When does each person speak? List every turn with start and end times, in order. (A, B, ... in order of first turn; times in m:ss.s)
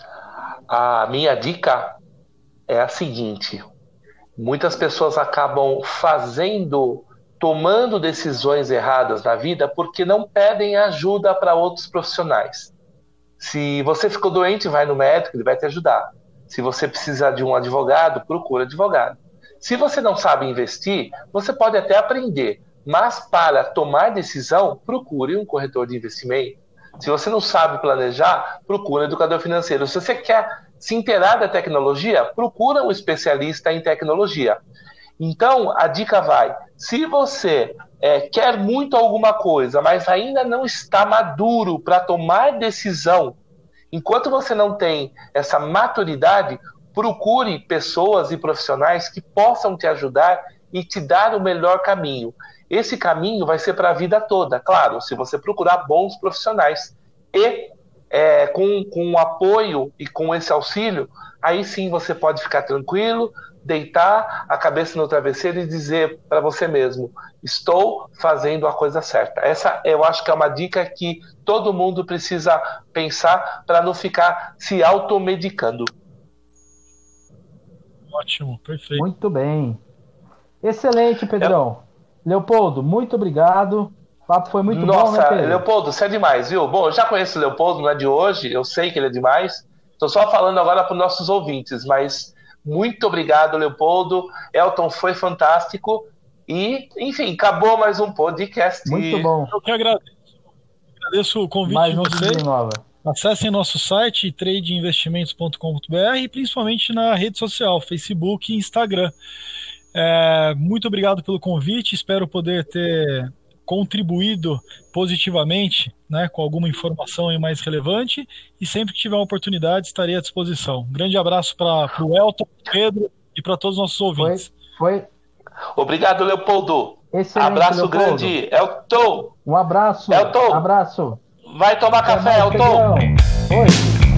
0:00.7-0:02.0 A
0:02.7-0:03.7 A
0:04.4-0:12.7 A
0:13.4-0:34.6 A
0:35.2-0:43.4 A
0:43.9-1:15.9 A
1:18.1-1:19.1 B
1:18.9-1:19.8 C
1:20.6-1:25.6 C
1:24.7-1:39.3 A
1:38.8-1:39.6 C
1:39.5-1:40.1 B
1:41.0-1:42.4 B
1:41.6-1:42.8 C
1:43.0-1:49.1 B
1:49.9-2:04.5 B
2:04.2-2:05.1 C
2:05.8-2:09.3 A
2:07.1-2:08.3 C
2:09.4-2:11.2 C
2:10.1-2:10.6 A
2:11.5-2:12.9 A
2:12.0-2:13.9 C